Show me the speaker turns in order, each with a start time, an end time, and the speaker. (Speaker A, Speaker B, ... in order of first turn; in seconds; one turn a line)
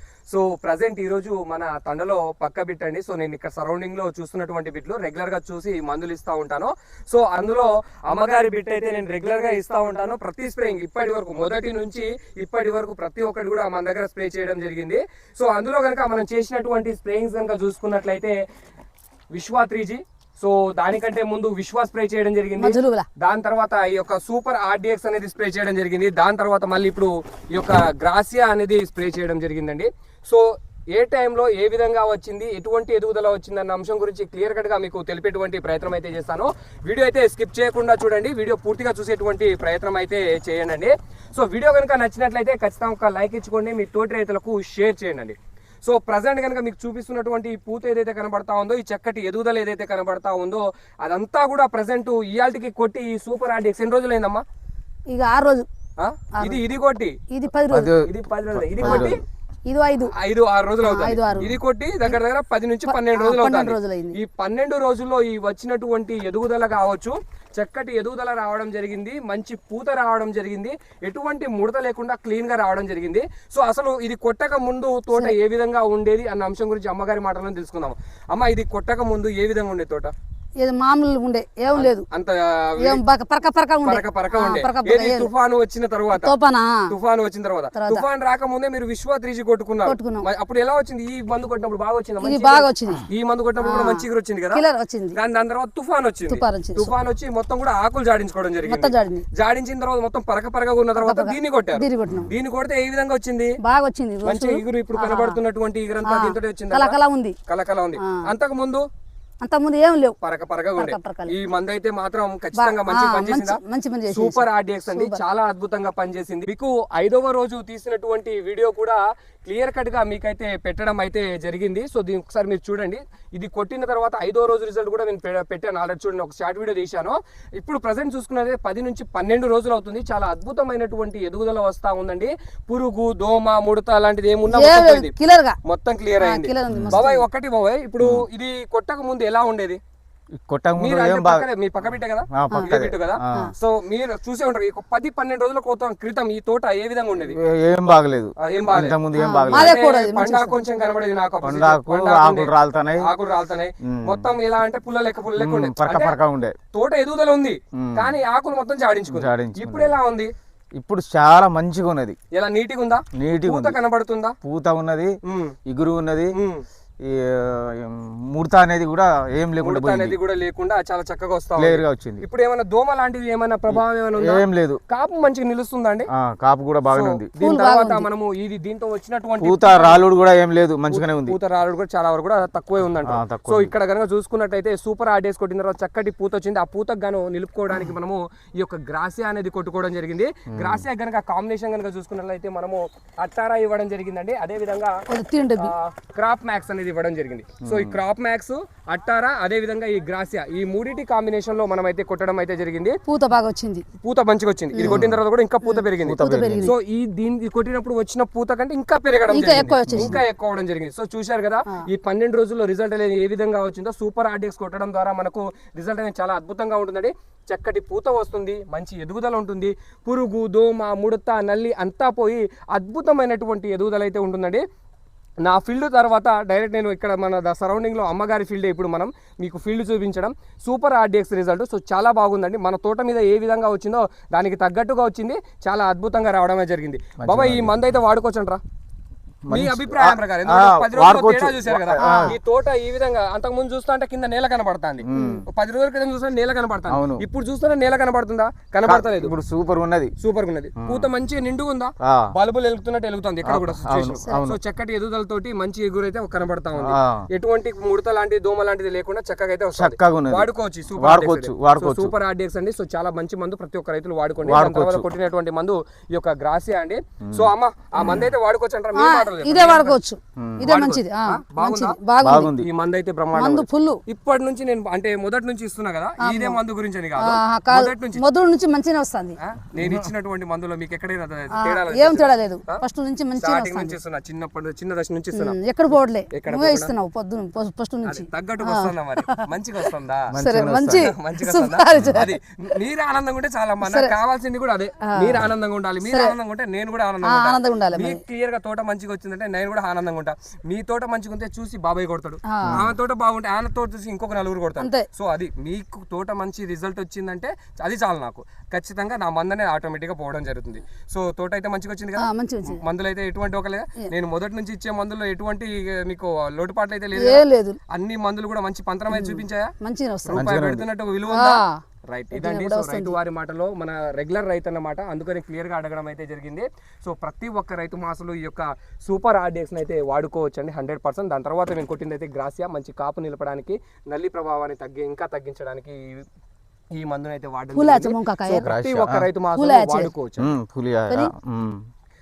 Speaker A: 0.3-18.4
Speaker A: 19.3-54.4
Speaker B: 22.6-23.1
Speaker B: 55.1-55.7
Speaker A: 56.0-57.2
Speaker B: 57.3-57.9
Speaker C: 57.7-59.2
Speaker A: 57.8-59.2
Speaker B: 58.8-59.2
Speaker B: 59.7-60.1
Speaker A: 60.1-80.1
Speaker B: 60.8-62.2
Speaker B: 62.9-64.2
Speaker B: 80.6-82.0
Speaker A: 81.7-83.0
Speaker B: 82.8-85.3
Speaker A: 83.8-86.3
Speaker B: 86.1-86.9
Speaker A: 86.9-94.6
Speaker B: 87.8-88.1
Speaker B: 89.8-90.3
Speaker B: 92.2-93.1
Speaker B: 93.6-95.2
Speaker A: 95.1-103.5
Speaker B: 96.3-96.9
Speaker B: 98.7-99.3
Speaker B: 101.0-102.3
Speaker B: 103.6-105.4
Speaker A: 104.2-108.8
Speaker B: 106.0-107.4
Speaker B: 109.4-110.2
Speaker A: 110.2-139.8
Speaker B: 110.8-111.3
Speaker B: 112.6-115.2
Speaker B: 134.5-135.6
Speaker B: 136.2-137.2
Speaker C: 136.7-137.0
Speaker C: 140.4-141.5
Speaker A: 140.8-147.4
Speaker C: 142.3-143.5
Speaker C: 147.2-149.8
Speaker A: 148.4-156.2
Speaker B: 149.2-150.6
Speaker C: 151.4-153.1
Speaker C: 153.8-154.3
Speaker C: 155.4-156.6
Speaker A: 156.7-160.3
Speaker C: 157.7-158.1
Speaker C: 159.1-160.0
Speaker C: 160.8-162.2
Speaker A: 162.3-164.3
Speaker C: 163.2-163.8
Speaker C: 164.4-165.1
Speaker A: 165.2-165.6
Speaker C: 165.7-166.3
Speaker A: 166.3-166.7
Speaker C: 167.0-170.2
Speaker A: 169.6-176.1
Speaker C: 171.6-172.2
Speaker C: 173.7-174.8
Speaker C: 176.2-177.3
Speaker A: 176.9-180.1
Speaker B: 177.4-178.1
Speaker C: 179.4-181.4
Speaker A: 180.9-195.0
Speaker C: 183.1-183.7
Speaker C: 190.5-190.8
Speaker B: 195.1-195.7
Speaker A: 195.6-203.0
Speaker C: 197.6-198.0
Speaker B: 203.1-203.8
Speaker A: 204.0-224.6
Speaker B: 204.7-205.1
Speaker C: 204.8-205.2
Speaker B: 205.6-206.8
Speaker C: 206.0-206.7
Speaker B: 209.3-210.2
Speaker C: 209.7-210.2
Speaker A: 225.4-238.6
Speaker C: 237.2-237.7
Speaker C: 239.5-242.4
Speaker A: 239.5-249.3
Speaker B: 242.0-242.4
Speaker C: 245.0-245.4
Speaker B: 245.1-245.4
Speaker C: 246.9-247.2
Speaker C: 248.9-250.1
Speaker A: 250.2-270.0
Speaker C: 250.8-251.1
Speaker C: 252.0-252.3
Speaker C: 253.4-254.6
Speaker C: 256.8-257.3
Speaker C: 259.8-262.1
Speaker C: 264.4-265.1
Speaker C: 267.2-267.5
Speaker B: 268.0-268.3
Speaker B: 268.9-272.6
Speaker C: 270.4-270.7
Speaker A: 270.6-278.3
Speaker C: 272.2-272.7
Speaker B: 273.3-274.0
Speaker B: 276.2-276.6
Speaker B: 277.2-279.4
Speaker A: 279.4-282.8
Speaker C: 279.8-280.1
Speaker B: 281.5-284.0
Speaker A: 283.4-285.6
Speaker B: 285.3-289.4
Speaker A: 286.3-286.9
Speaker A: 288.0-290.3
Speaker C: 290.3-291.1
Speaker B: 290.4-292.4
Speaker A: 290.9-319.7
Speaker B: 293.8-294.1
Speaker B: 295.1-295.5
Speaker B: 296.0-296.4
Speaker B: 297.2-298.2
Speaker B: 302.5-302.8
Speaker B: 304.8-305.1
Speaker B: 312.2-312.8
Speaker B: 317.2-317.8
Speaker B: 319.1-320.5
Speaker A: 320.2-336.3
Speaker C: 320.3-320.9
Speaker B: 321.3-323.2
Speaker A: 336.9-340.5
Speaker B: 337.7-338.7
Speaker C: 338.6-339.3
Speaker B: 339.6-340.1
Speaker C: 340.4-341.9